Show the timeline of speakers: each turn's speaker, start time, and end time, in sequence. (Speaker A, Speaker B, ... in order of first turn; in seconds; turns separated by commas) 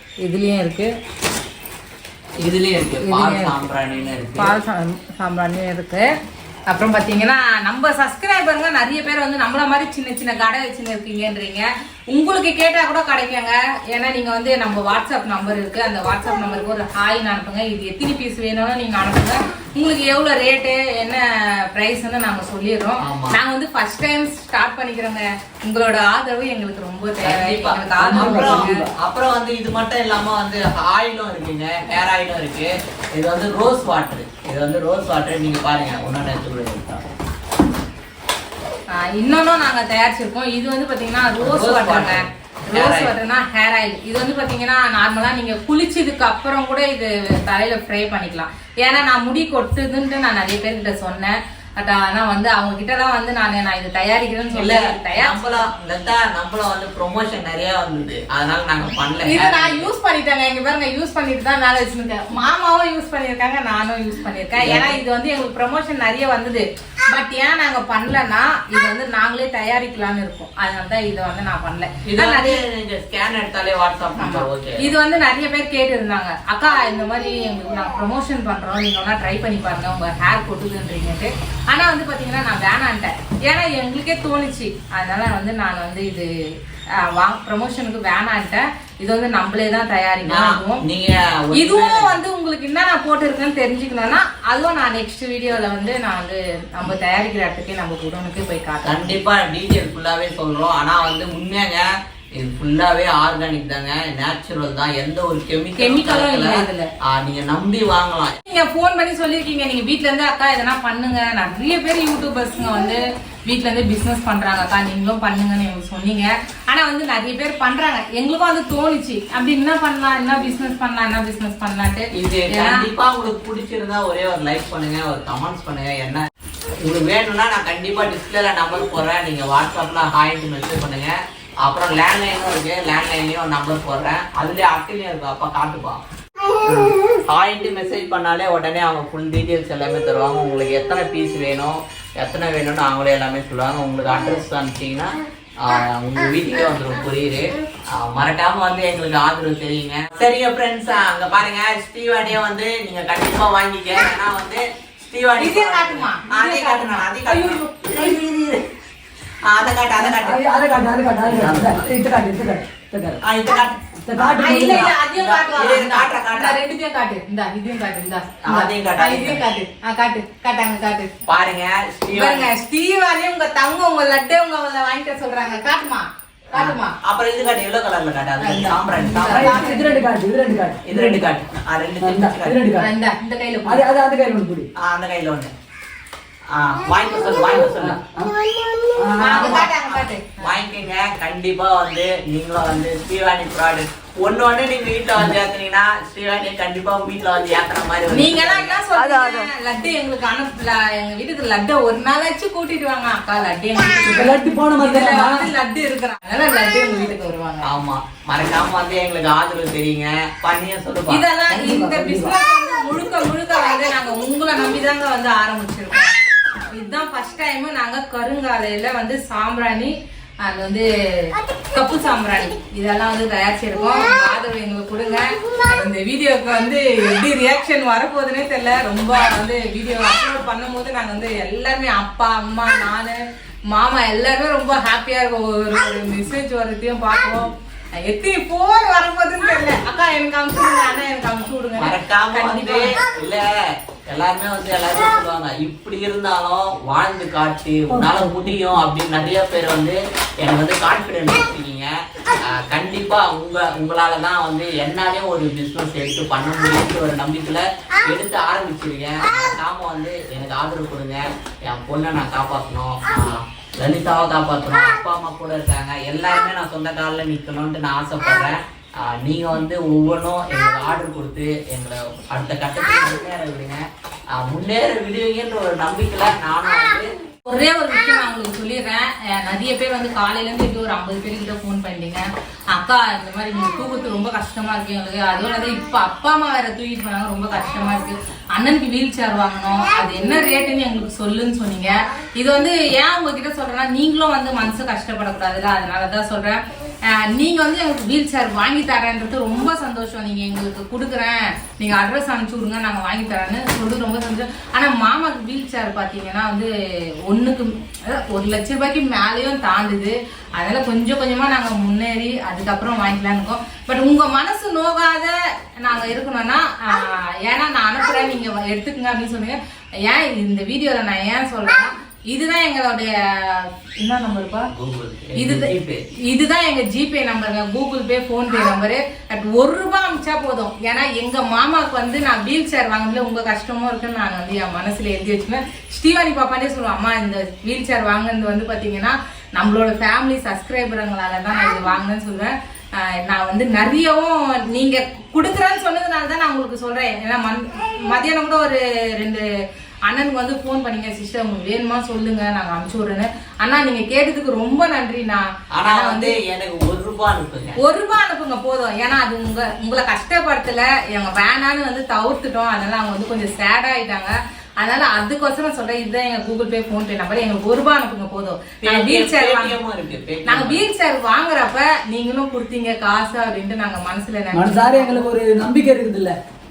Speaker A: 0.2-0.9, Speaker B: 2.4-4.5, Speaker A: 3.0-3.5, Speaker A: 4.3-6.1, Speaker A: 6.7-28.8, Speaker B: 23.0-23.4, Speaker B: 27.2-37.0, Speaker C: 28.0-28.9, Speaker A: 38.9-55.6, Speaker B: 41.4-43.1, Speaker B: 54.5-59.9, Speaker A: 59.3-72.6, Speaker B: 64.6-65.0, Speaker B: 72.0-74.9, Speaker A: 74.2-86.3, Speaker A: 87.0-90.8, Speaker B: 90.2-92.2, Speaker A: 91.5-99.1, Speaker B: 98.8-106.6, Speaker A: 105.8-106.9, Speaker B: 107.1-108.3, Speaker A: 108.4-122.8, Speaker B: 122.1-126.2, Speaker B: 126.8-136.0, Speaker B: 136.6-158.6, Speaker A: 155.4-158.1, Speaker B: 159.4-160.4, Speaker C: 160.0-163.2, Speaker B: 161.2-161.9, Speaker B: 163.2-166.6, Speaker C: 164.0-164.9, Speaker A: 164.4-171.1, Speaker B: 168.4-169.4, Speaker B: 171.3-172.5, Speaker A: 172.1-176.9, Speaker B: 176.5-179.7, Speaker A: 178.4-180.0, Speaker C: 179.3-181.3, Speaker B: 180.8-182.6, Speaker C: 182.0-182.9, Speaker A: 182.8-183.9, Speaker C: 183.7-184.7, Speaker B: 184.8-185.5, Speaker B: 186.5-188.0, Speaker C: 187.6-188.3, Speaker C: 189.0-189.6, Speaker A: 189.2-190.4, Speaker B: 189.2-198.8, Speaker A: 198.1-207.7, Speaker C: 199.0-199.5, Speaker C: 204.1-205.5, Speaker B: 207.6-211.2, Speaker A: 211.1-216.1, Speaker C: 211.5-212.3, Speaker A: 216.7-233.2, Speaker A: 233.7-243.0, Speaker B: 241.8-243.5, Speaker B: 244.1-251.9, Speaker C: 247.9-248.6, Speaker B: 252.4-273.8, Speaker B: 274.3-277.1, Speaker A: 277.4-306.7, Speaker A: 307.3-324.7, Speaker B: 324.7-326.0, Speaker A: 325.4-325.7, Speaker A: 326.3-349.4, Speaker A: 350.1-356.3, Speaker B: 355.7-357.8, Speaker A: 357.8-369.8, Speaker B: 368.8-370.8, Speaker A: 370.4-375.2, Speaker C: 374.5-376.4